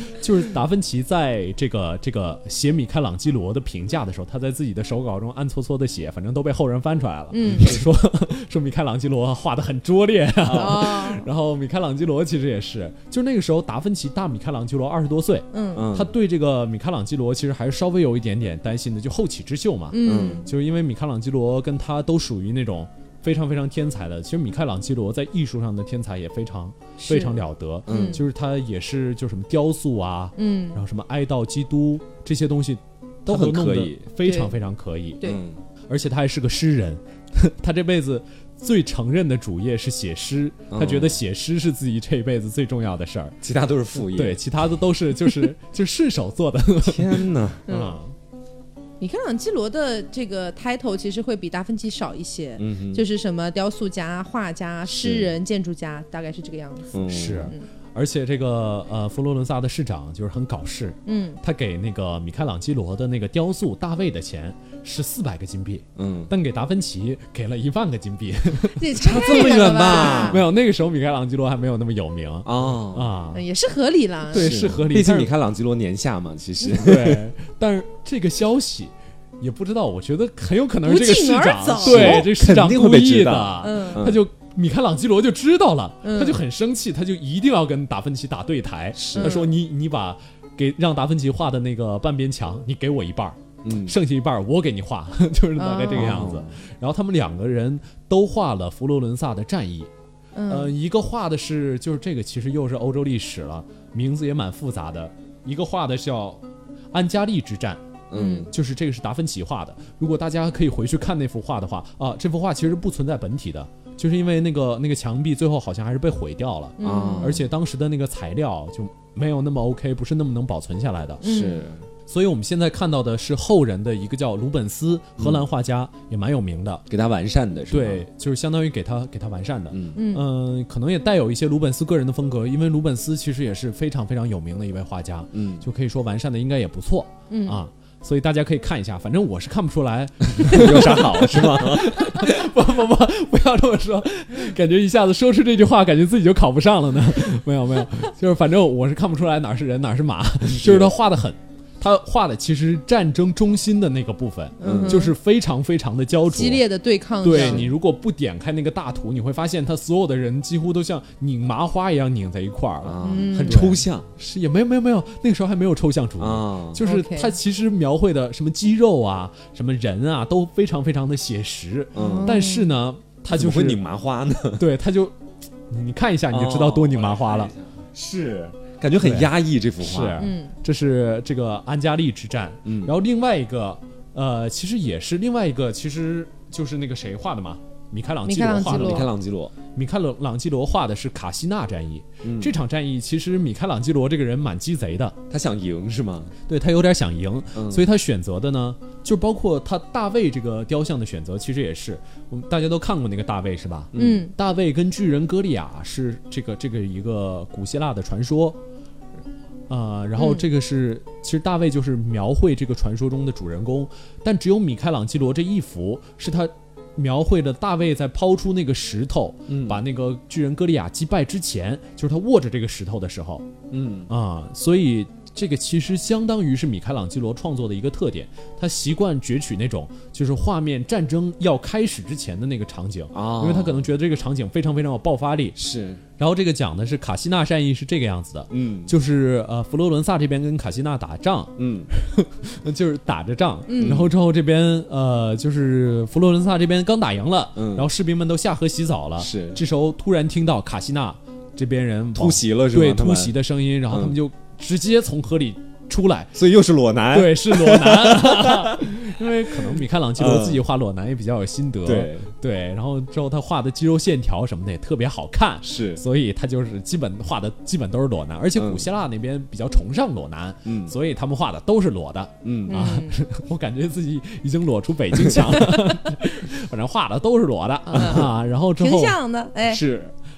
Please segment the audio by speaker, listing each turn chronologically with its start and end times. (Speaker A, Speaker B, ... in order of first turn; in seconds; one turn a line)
Speaker A: 0.2-35.2
Speaker B: 7.3-7.8
Speaker C: 10.4-10.8
Speaker B: 10.5-11.2
Speaker B: 15.5-15.8
Speaker C: 15.8-16.1
Speaker B: 19.9-20.5
Speaker C: 20.0-20.4
Speaker B: 27.0-28.2
Speaker C: 27.9-28.2
Speaker B: 30.4-30.8
Speaker C: 33.3-34.0
Speaker B: 34.2-34.5
Speaker C: 35.2-35.6
Speaker A: 35.9-43.4
Speaker C: 40.7-41.2
Speaker C: 43.4-44.4
Speaker A: 44.1-48.1
Speaker C: 46.8-47.6
Speaker B: 47.7-48.0
Speaker B: 49.0-57.6
Speaker C: 52.6-53.0
Speaker C: 54.9-55.3
Speaker C: 56.9-57.5
Speaker A: 57.0-73.4
Speaker B: 61.0-61.4
Speaker C: 66.0-66.3
Speaker B: 68.7-70.4
Speaker C: 69.0-70.4
Speaker C: 72.4-73.1
Speaker B: 73.3-74.5
Speaker A: 74.3-75.3
Speaker C: 74.3-77.2
Speaker A: 76.7-99.9
Speaker B: 80.8-82.3
Speaker C: 81.8-84.2
Speaker B: 83.6-84.0
Speaker B: 86.0-86.4
Speaker C: 89.0-89.4
Speaker B: 89.1-89.5
Speaker C: 93.6-93.9
Speaker B: 95.6-96.3
Speaker C: 95.9-96.5
Speaker B: 100.3-100.7
Speaker A: 100.5-106.4
Speaker A: 106.9-107.8
Speaker C: 108.1-108.5
Speaker B: 108.1-108.5
Speaker A: 108.5-121.2
Speaker B: 116.8-117.4
Speaker C: 116.8-117.4
Speaker B: 121.2-121.7
Speaker C: 121.2-121.8
Speaker A: 122.1-126.8
Speaker C: 125.2-125.4
Speaker C: 126.9-128.0
Speaker A: 127.7-156.6
Speaker C: 129.7-130.0
Speaker B: 129.9-130.2
Speaker C: 135.3-135.6
Speaker B: 137.3-137.6
Speaker C: 140.4-142.0
Speaker C: 150.4-150.9
Speaker B: 154.6-155.1
Speaker C: 154.6-155.1
Speaker B: 156.3-157.7
Speaker A: 157.2-173.8
Speaker C: 157.3-157.7
Speaker C: 162.8-164.1
Speaker B: 163.0-163.7
Speaker C: 166.2-166.8
Speaker B: 166.8-167.3
Speaker C: 171.9-172.3
Speaker B: 171.9-172.7
Speaker C: 173.3-174.6
Speaker A: 174.6-175.1
Speaker A: 175.7-177.5
Speaker C: 176.3-180.2
Speaker A: 179.0-189.1
Speaker B: 180.2-180.5
Speaker C: 182.6-182.9
Speaker B: 188.2-189.1
Speaker C: 188.7-189.5
Speaker A: 189.7-195.2
Speaker C: 192.2-192.5
Speaker C: 195.3-196.3
Speaker A: 196.5-208.6
Speaker C: 197.5-197.8
Speaker C: 203.9-204.2
Speaker B: 203.9-204.3
Speaker A: 209.7-223.4
Speaker B: 210.2-210.4
Speaker C: 219.5-219.8
Speaker C: 223.7-224.1
Speaker A: 224.1-235.6
Speaker C: 233.1-233.9
Speaker C: 235.6-236.0
Speaker A: 236.2-256.3
Speaker C: 238.5-238.9
Speaker C: 241.6-241.9
Speaker B: 243.7-244.0
Speaker C: 243.8-244.1
Speaker C: 247.6-247.9
Speaker C: 249.2-249.6
Speaker C: 252.1-253.3
Speaker C: 253.9-254.2
Speaker C: 256.3-258.9
Speaker A: 257.1-279.2
Speaker C: 259.5-260.6
Speaker C: 261.9-262.3
Speaker C: 265.6-266.0
Speaker C: 268.6-268.9
Speaker C: 270.6-270.9
Speaker C: 272.4-272.9
Speaker B: 272.7-273.2
Speaker B: 277.9-279.8
Speaker C: 277.9-278.3
Speaker C: 279.7-280.1